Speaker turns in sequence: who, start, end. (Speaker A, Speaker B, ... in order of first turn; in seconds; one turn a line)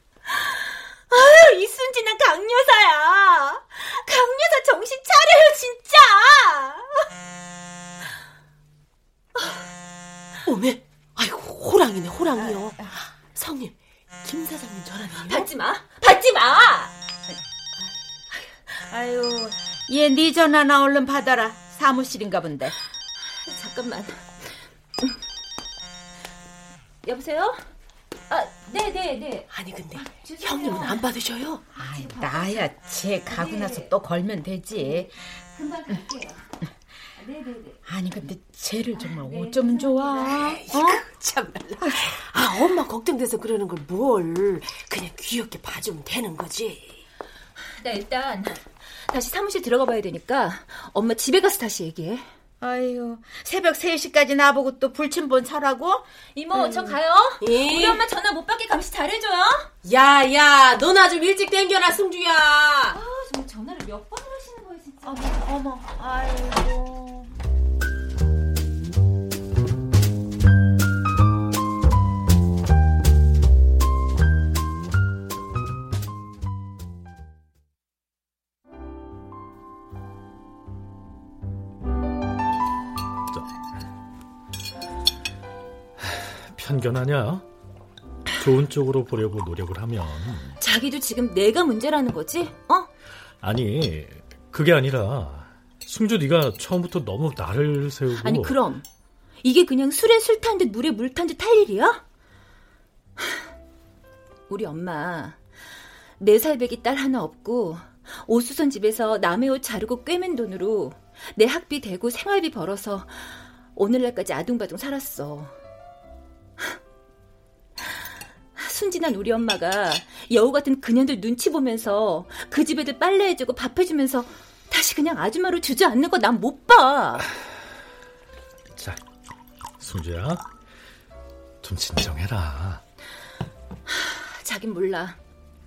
Speaker A: 0.3-7.0
Speaker B: 10.4-15.5
Speaker A: 15.2-16.9
Speaker C: 18.9-22.7
Speaker A: 23.4-25.2
Speaker A: 27.0-27.6
Speaker A: 28.3-31.0
Speaker B: 29.5-31.6
Speaker A: 31.8-32.7
Speaker C: 31.8-35.1
Speaker A: 33.3-33.9
Speaker A: 34.8-36.5
Speaker A: 37.1-37.8
Speaker C: 37.9-41.0
Speaker A: 39.0-40.9
Speaker B: 40.2-47.0
Speaker A: 47.8-52.2
Speaker C: 52.6-57.0
Speaker A: 56.3-59.7
Speaker B: 57.4-58.0
Speaker B: 59.8-63.0
Speaker A: 62.9-65.4
Speaker C: 65.0-67.3
Speaker D: 86.0-87.5
Speaker D: 88.4-90.6
Speaker A: 90.6-92.9
Speaker D: 93.4-98.5
Speaker A: 98.2-98.8
Speaker A: 99.4-102.0
Speaker A: 104.5-105.4
Speaker A: 106.2-115.5
Speaker A: 118.5-127.3
Speaker D: 128.7-129.0
Speaker D: 129.8-130.4
Speaker D: 131.6-132.8
Speaker A: 133.9-135.2